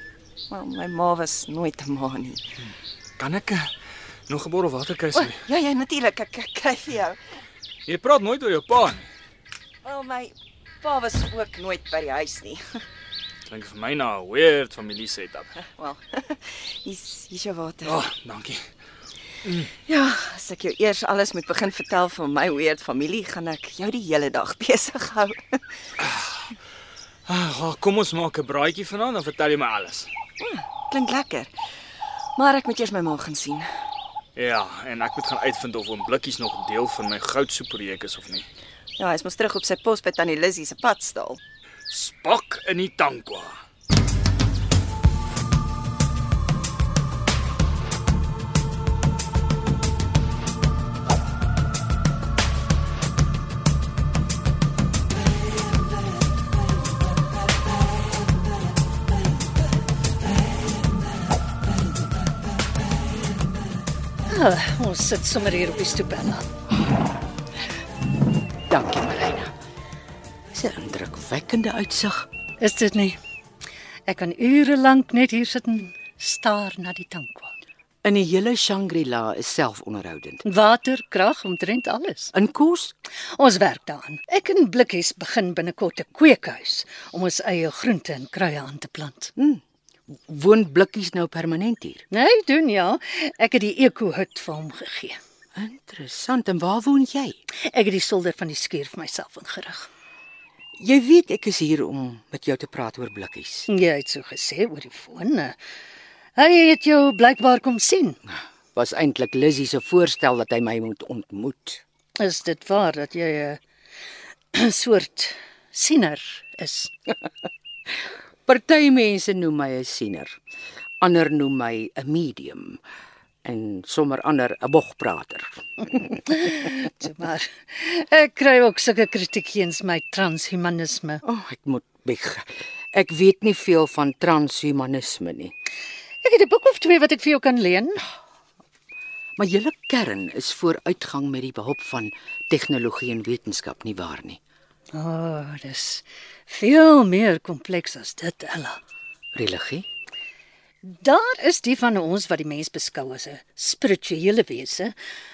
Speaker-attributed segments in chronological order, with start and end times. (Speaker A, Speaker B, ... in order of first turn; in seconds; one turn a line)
Speaker A: 0.5-2.4
Speaker B: 3.2-3.7
Speaker B: 4.3-5.3
Speaker A: 5.2-7.2
Speaker B: 7.9-9.1
Speaker A: 9.8-12.8
Speaker B: 13.5-15.5
Speaker A: 15.6-18.0
Speaker B: 17.9-18.7
Speaker A: 19.9-25.6
Speaker B: 26.1-26.4
Speaker B: 27.3-30.1
Speaker A: 30.4-31.5
Speaker A: 32.4-33.7
Speaker B: 34.4-38.5
Speaker A: 39.0-41.4
Speaker B: 41.9-43.6
Speaker C: 64.3-66.5
Speaker D: 68.7-69.5
Speaker D: 70.5-72.3
Speaker C: 72.6-73.2
Speaker C: 74.1-77.5
Speaker D: 78.0-80.5
Speaker C: 80.5-82.3
Speaker D: 82.3-82.9
Speaker C: 83.4-89.3
Speaker D: 89.4-92.0
Speaker C: 92.1-95.2
Speaker D: 95.6-97.4
Speaker C: 97.7-99.9
Speaker D: 100.8-103.7
Speaker C: 103.7-105.6
Speaker C: 106.4-108.2
Speaker D: 108.8-111.8
Speaker C: 112.2-113.6
Speaker C: 114.5-116.9
Speaker D: 118.5-120.4
Speaker D: 121.0-122.8
Speaker D: 123.4-126.1
Speaker C: 126.3-131.2
Speaker D: 131.2-135.5
Speaker C: 136.2-138.0
Speaker D: 139.4-144.4
Speaker C: 144.9-148.8
Speaker D: 149.3-149.9
Speaker C: 150.8-154.9